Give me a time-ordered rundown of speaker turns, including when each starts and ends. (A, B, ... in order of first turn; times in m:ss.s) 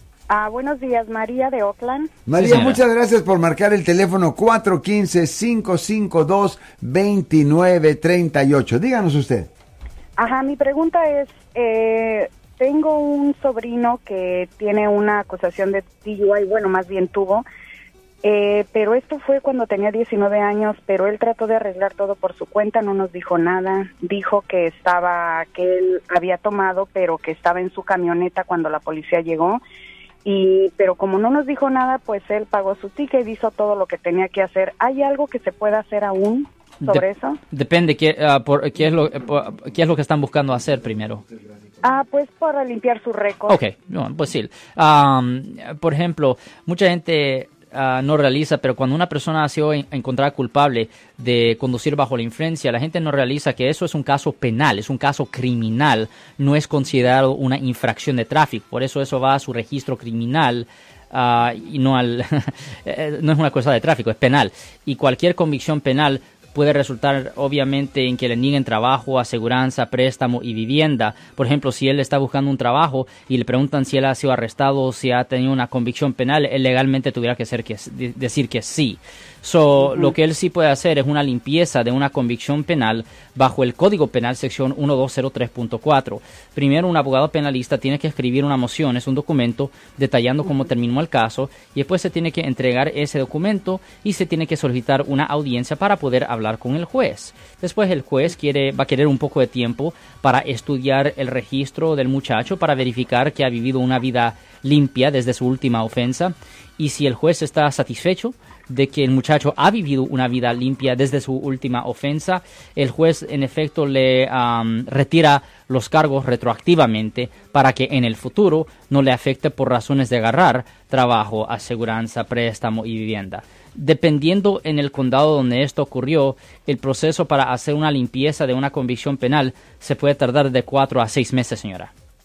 0:00.3-0:02.2 A
0:02.3-0:09.5 B
0:02.4-0:02.8 C
0:10.2-0:17.4 A
0:18.2-0:29.6 A
0:30.2-0:37.4 A
0:36.8-0:41.2 C
0:41.8-0:43.6 A
0:43.5-2:11.9 C